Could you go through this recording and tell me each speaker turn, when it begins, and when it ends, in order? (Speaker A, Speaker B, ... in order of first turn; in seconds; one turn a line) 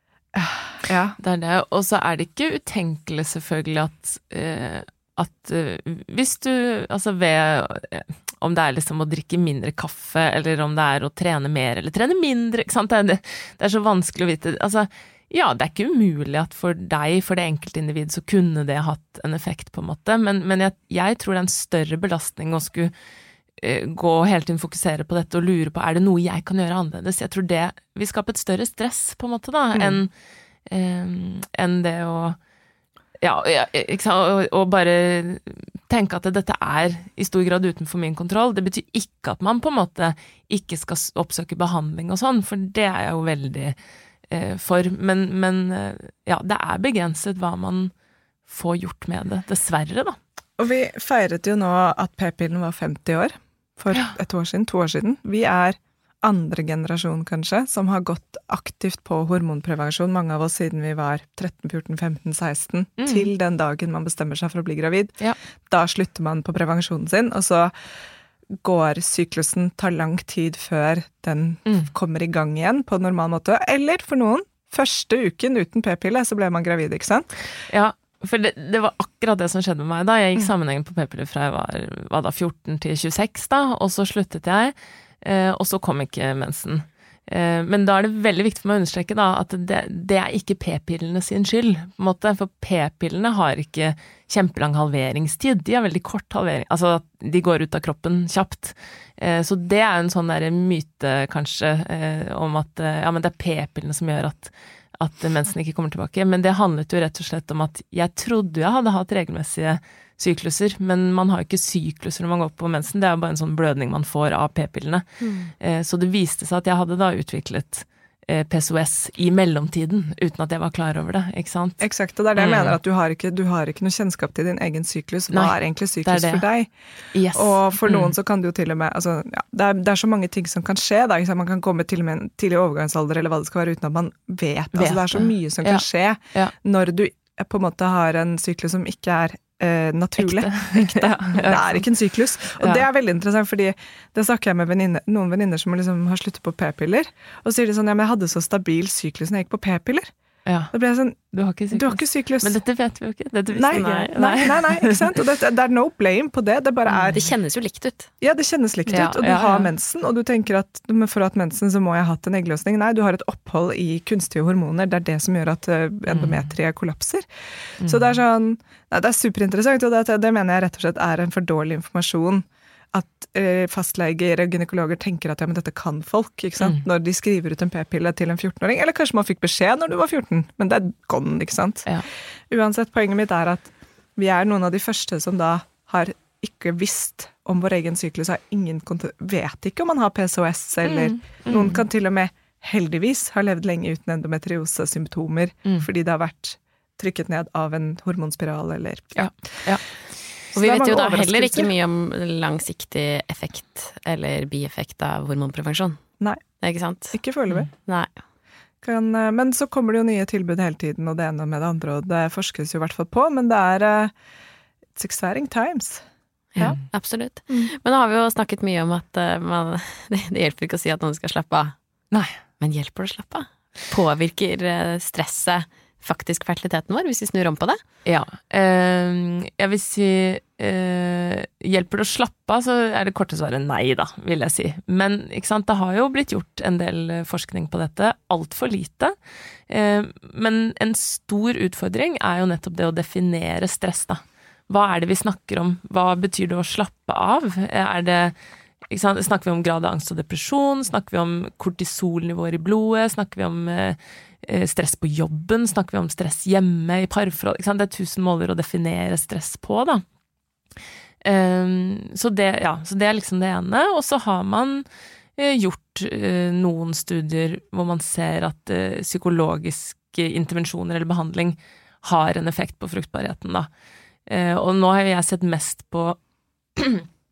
Speaker A: 0.3-1.2
Speaker B: 1.2-22.9
Speaker B: 23.6-30.1
Speaker A: 29.7-30.0
Speaker B: 30.7-32.4
Speaker B: 33.2-43.8
Speaker B: 44.3-47.9
Speaker B: 48.5-50.2
Speaker A: 50.6-65.2
Speaker B: 63.0-63.3
Speaker A: 65.7-67.7
Speaker A: 68.6-77.3
Speaker B: 77.7-115.1
Speaker C: 115.2-115.5
Speaker B: 115.6-121.8
Speaker A: 121.8-126.7
Speaker B: 122.4-122.8
Speaker B: 125.3-126.5
Speaker B: 127.1-128.1
Speaker A: 127.3-150.1
Speaker B: 134.7-136.5
Speaker B: 140.2-141.9
Speaker B: 142.6-142.9
Speaker B: 150.5-150.7
Speaker A: 150.7-151.2
Speaker B: 151.3-155.2
Speaker A: 151.7-152.6
Speaker A: 153.5-157.2
Speaker C: 153.7-154.1
Speaker B: 156.9-157.2
Speaker C: 157.1-158.1
Speaker A: 158.2-167.3
Speaker B: 158.9-159.7
Speaker B: 166.1-166.5
Speaker B: 167.8-168.1
Speaker A: 167.8-181.9
Speaker A: 182.5-199.7
Speaker B: 190.8-191.8
Speaker B: 199.2-199.8
Speaker A: 200.5-201.7
Speaker C: 200.5-206.0
Speaker C: 206.6-207.2
Speaker A: 207.1-207.7
Speaker C: 207.7-208.1
Speaker A: 208.8-214.1
Speaker A: 214.9-216.0
Speaker C: 216.6-221.8
Speaker B: 222.1-222.4
Speaker C: 222.6-227.8
Speaker B: 228.1-239.2
Speaker B: 239.7-248.4
Speaker B: 248.9-260.0
Speaker B: 261.2-264.9
Speaker B: 265.4-273.7
Speaker B: 274.3-276.2
Speaker B: 276.8-277.1